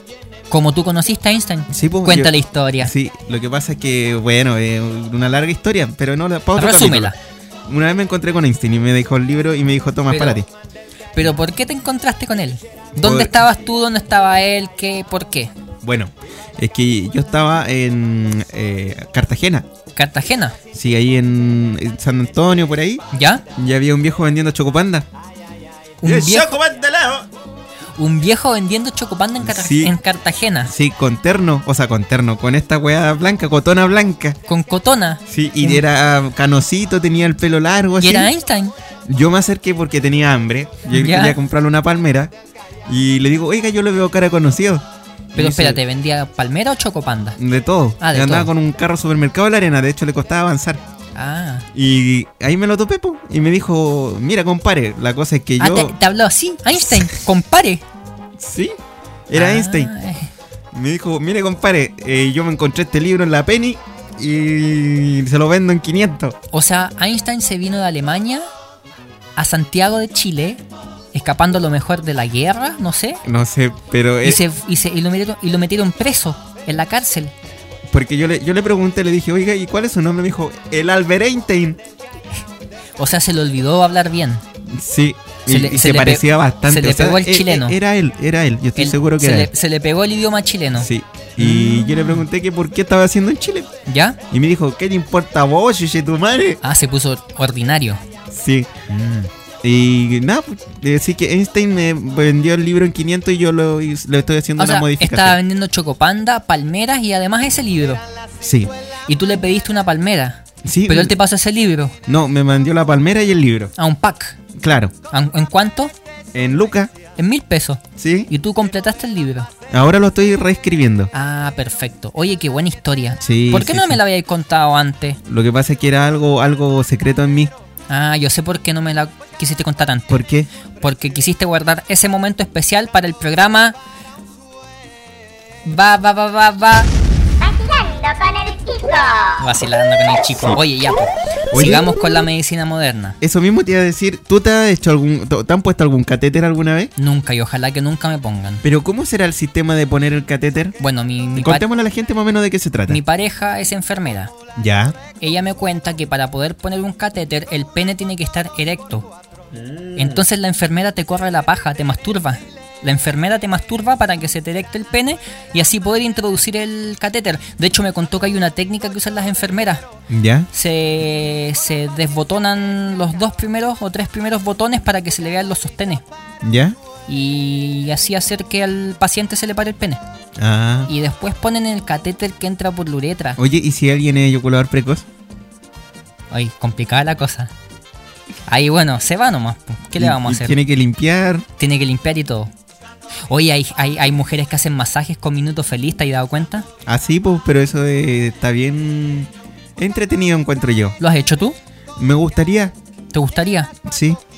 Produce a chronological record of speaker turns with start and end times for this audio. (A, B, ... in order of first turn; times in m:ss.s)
0:00.5-0:02.9 A
0:01.7-0:07.1 B
0:06.6-0:07.2 A
0:07.7-0:10.5 B
0:10.1-0:10.4 A
0:11.1-0:15.5 A
0:13.0-0:13.4 B
0:15.8-0:19.7 B
0:20.0-0:20.6 A
0:20.7-0:23.0 B
0:23.1-0:23.4 A
0:23.6-0:25.1 B
0:26.0-0:26.5 A
0:26.0-0:27.3 B
0:28.0-0:30.7 A
0:29.4-0:30.0 B
0:30.6-0:34.4 B
0:34.5-0:35.8 A
0:35.3-0:38.3 B
0:38.0-0:38.8 A
0:39.1-0:42.3 B
0:40.9-0:41.4 A
0:42.9-0:45.8 B
0:45.4-0:47.4 A
0:47.4-0:50.8 B
0:48.0-0:48.5 A
0:51.2-0:51.7 A
0:51.7-0:56.0 B
0:55.6-0:57.8 A
0:58.4-0:58.8 B
0:59.3-0:59.9 B
0:59.3-1:00.3 A
1:00.7-1:06.4 B
1:06.5-1:08.5 A
1:09.4-1:10.6 A
1:11.1-1:13.2 A
1:13.2-1:14.4 B
1:14.2-1:17.3 A
1:17.9-1:21.8 B
1:23.0-1:24.4 A
1:24.7-1:29.5 B
1:25.5-1:27.8 A
1:28.8-1:32.2 A
1:30.8-1:33.7 B
1:33.9-1:34.2 A
1:34.3-1:36.6 B
1:36.6-1:38.0 A
1:38.3-1:38.7 B
1:38.9-1:39.3 A
1:39.6-1:45.4 B
1:44.6-1:48.0 A
1:48.4-1:48.7 B
1:49.1-1:52.0 A
1:50.6-1:51.2 B
1:52.1-1:53.7 B
1:53.8-1:54.4 A
1:54.6-1:54.9 B
1:55.1-1:55.9 A
1:56.3-1:56.9 B
1:57.2-1:59.5 A
1:58.0-1:58.3 B
1:59.7-2:01.1 B
2:01.1-2:05.2 A
2:03.2-2:04.0 B
2:05.3-2:07.5 B
2:07.9-2:10.2 A
2:10.1-2:10.5 B
2:10.8-2:13.8 A
2:15.6-2:16.9 A
2:17.4-2:19.4 C
2:19.4-2:23.2 A
2:20.4-2:20.6 B
2:21.5-2:22.0 B
2:23.2-2:26.9 B
2:27.0-2:28.6 A
2:28.6-2:30.8 B
2:30.8-2:31.7 A
2:31.4-2:33.0 B
2:32.9-2:34.3 A
2:34.6-2:35.0 B
2:35.2-2:39.1 A
2:39.5-2:40.3 B
2:40.0-2:49.9 A
2:50.1-2:50.5 B
2:50.5-2:56.0 A
2:56.4-2:56.8 B
2:57.1-3:00.0 A
3:00.4-3:00.9 B
3:00.9-3:03.4 A
3:03.4-3:05.1 B
3:06.3-3:07.5 A
3:08.5-3:10.6 A
3:10.0-3:11.5 B
3:11.6-3:12.5 A
3:13.3-3:16.7 A
3:16.9-3:21.0 B
3:21.0-3:21.6 A
3:22.0-3:22.7 B
3:23.1-3:23.7 A
3:23.8-3:24.2 B